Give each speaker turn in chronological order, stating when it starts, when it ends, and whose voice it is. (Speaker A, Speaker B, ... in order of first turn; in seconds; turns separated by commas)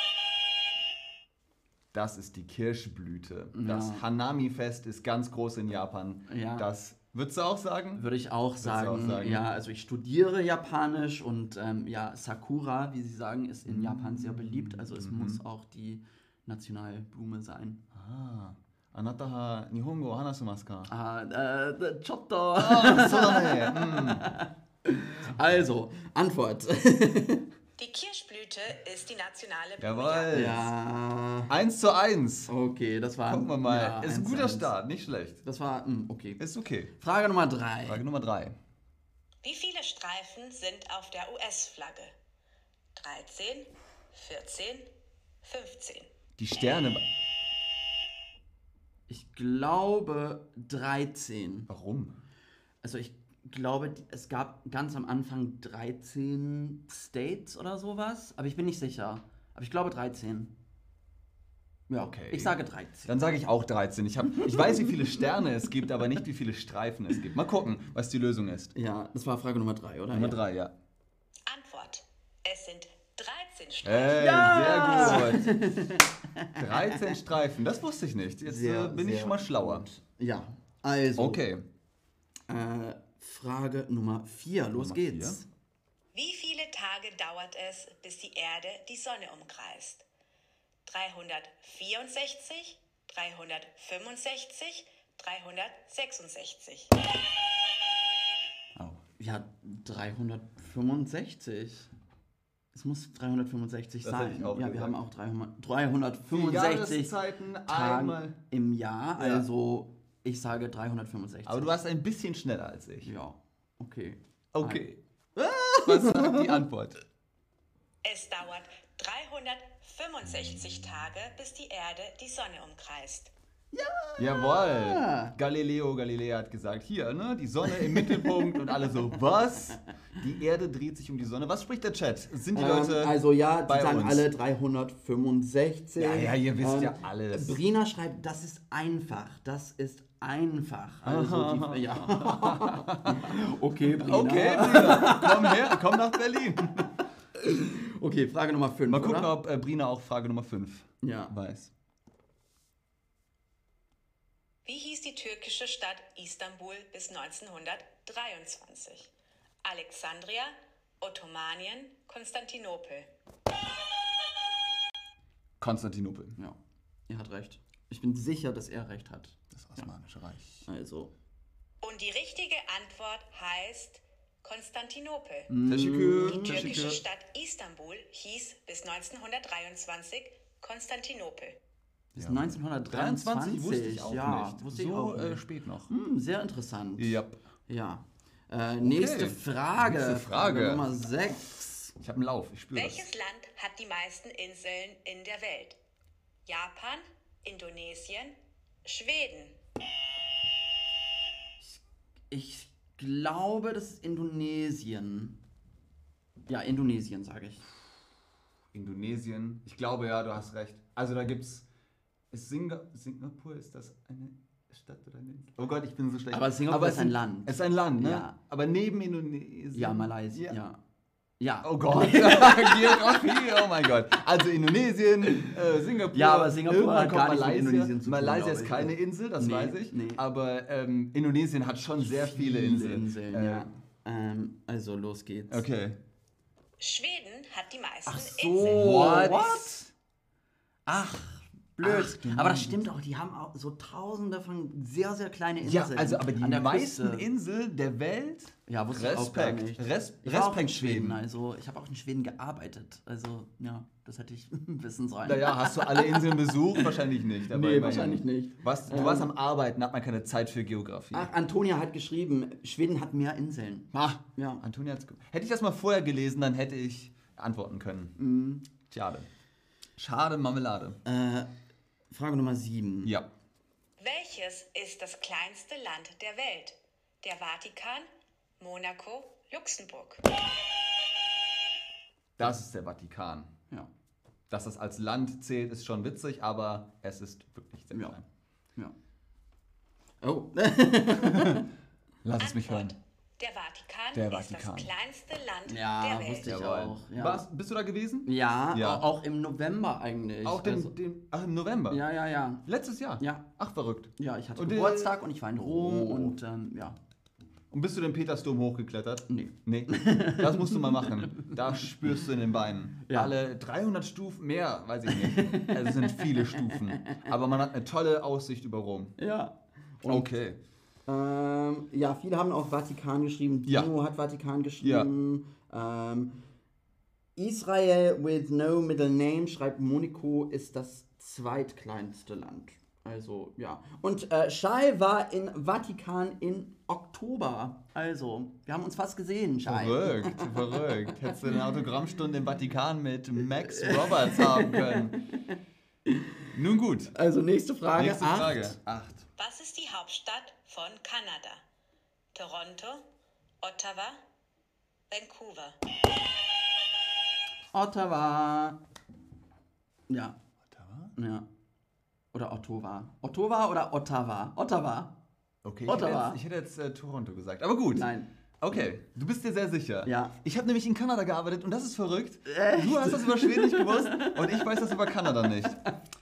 Speaker A: 1.9-8.0, Speaker B: 3.5-4.0, Speaker B: 6.3-6.7, Speaker B: 8.0-17.8, Speaker A: 8.6-9.4, Speaker A: 13.7-15.4, Speaker A: 17.9-20.9, Speaker B: 20.9-27.4, Speaker A: 22.6-24.3, Speaker C: 27.8-30.4, Speaker A: 29.8-30.7, Speaker B: 30.3-31.5, Speaker A: 31.5-32.5, Speaker B: 32.5-34.8, Speaker A: 33.3-35.4, Speaker B: 35.4-36.4, Speaker A: 36.4-36.9, Speaker B: 37.0-38.0, Speaker A: 37.8-38.6, Speaker C: 39.4-42.1, Speaker C: 42.9-44.9, Speaker C: 45.4-46.1, Speaker A: 46.4-47.0, Speaker B: 49.1-51.7, Speaker A: 51.7-52.1, Speaker B: 52.8-60.5, Speaker B: 61.9-63.1, Speaker A: 62.0-68.7, Speaker B: 68.7-70.4, Speaker A: 70.1-70.7, Speaker C: 71.5-75.2, Speaker A: 73.8-75.6, Speaker B: 74.1-77.1, Speaker A: 76.6-79.8, Speaker B: 78.4-81.4, Speaker A: 81.2-81.6, Speaker B: 82.5-85.5, Speaker A: 84.7-85.4, Speaker C: 86.1-90.0, Speaker C: 90.8-96.9, Speaker B: 98.8-101.9, Speaker B: 102.7-111.8, Speaker A: 104.0-105.0, Speaker A: 106.3-108.4, Speaker A: 109.2-109.5, Speaker A: 111.5-113.1, Speaker B: 113.0-114.8, Speaker A: 114.5-115.0, Speaker B: 115.3-116.6, Speaker A: 115.8-117.0, Speaker C: 118.0-123.3, Speaker B: 123.7-125.3, Speaker A: 124.2-134.3, Speaker B: 127.7-128.9, Speaker B: 132.5-145.9, Speaker A: 136.0-137.6, Speaker A: 141.0-143.3, Speaker A: 143.9-146.9, Speaker B: 147.4-149.3, Speaker A: 148.9-151.7, Speaker B: 151.0-151.3, Speaker C: 154.7-159.1, Speaker C: 159.6-163.1, Speaker A: 165.6-166.4, Speaker B: 166.4-169.9, Speaker A: 169.5-170.7, Speaker B: 170.6-171.1, Speaker C: 171.8-175.5, Speaker B: 175.5-176.8, Speaker A: 175.7-177.0, Speaker C: 176.3-181.6, Speaker B: 182.1-191.9, Speaker A: 182.2-185.9, Speaker A: 187.0-187.4, Speaker A: 188.8-191.0, Speaker A: 192.0-193.1, Speaker C: 192.7-195.8, Speaker C: 196.4-199.6, Speaker B: 201.6-205.4, Speaker B: 206.5-207.6, Speaker A: 208.7-211.7, Speaker A: 212.3-220.6, Speaker B: 216.3-218.3, Speaker B: 219.7-220.8, Speaker B: 221.4-223.5, Speaker A: 221.6-233.7, Speaker B: 226.1-230.2, Speaker B: 232.0-235.6, Speaker A: 235.5-236.0, Speaker C: 236.8-239.1, Speaker B: 238.1-239.9, Speaker A: 238.6-239.8, Speaker B: 240.8-247.3, Speaker A: 241.8-242.9, Speaker A: 245.6-251.2, Speaker B: 248.7-256.9, Speaker A: 255.2-261.3, Speaker B: 257.5-259.3, Speaker B: 261.1-264.6, Speaker A: 263.9-268.1, Speaker B: 268.2-268.7, Speaker A: 268.9-269.3, Speaker A: 270.0-271.0, Speaker B: 271.0-271.5, Speaker B: 272.1-273.1, Speaker C: 274.0-278.1, Speaker C: 278.6-280.2, Speaker A: 282.4-283.5, Speaker A: 284.5-288.2, Speaker B: 287.9-288.2, Speaker B: 290.2-291.6, Speaker A: 292.2-292.9, Speaker C: 292.4-296.5, Speaker A: 294.1-294.9, Speaker B: 295.7-297.4, Speaker A: 296.4-299.1, Speaker B: 298.2-300.9, Speaker A: 300.4-302.0, Speaker B: 301.9-302.6, Speaker A: 302.6-306.4, Speaker B: 303.2-303.5, Speaker B: 304.1-307.0, Speaker A: 307.7-319.1, Speaker B: 309.3-311.9, Speaker B: 313.1-313.3, Speaker B: 315.1-317.2, Speaker B: 319.2-320.3, Speaker A: 320.0-320.6, Speaker B: 321.1-326.4, Speaker A: 323.6-323.9, Speaker A: 324.8-325.1, Speaker B: 327.4-341.1, Speaker A: 339.6-345.1, Speaker B: 343.4-345.6, Speaker A: 346.5-347.1, Speaker B: 347.1-348.8, Speaker A: 348.0-349.1, Speaker C: 349.4-351.6, Speaker C: 352.3-353.1, Speaker C: 353.6-354.2, Speaker C: 355.1-355.8, Speaker B: 357.7-358.8, Speaker B: 360.1-360.4, Speaker A: 360.7-361.1, Speaker B: 361.1-361.4, Speaker B: 362.3-365.1, Speaker A: 365.6-368.1, Speaker B: 365.9-366.4, Speaker B: 367.9-368.3, Speaker A: 368.6-375.8, Speaker B: 370.0-370.4, Speaker B: 372.4-375.7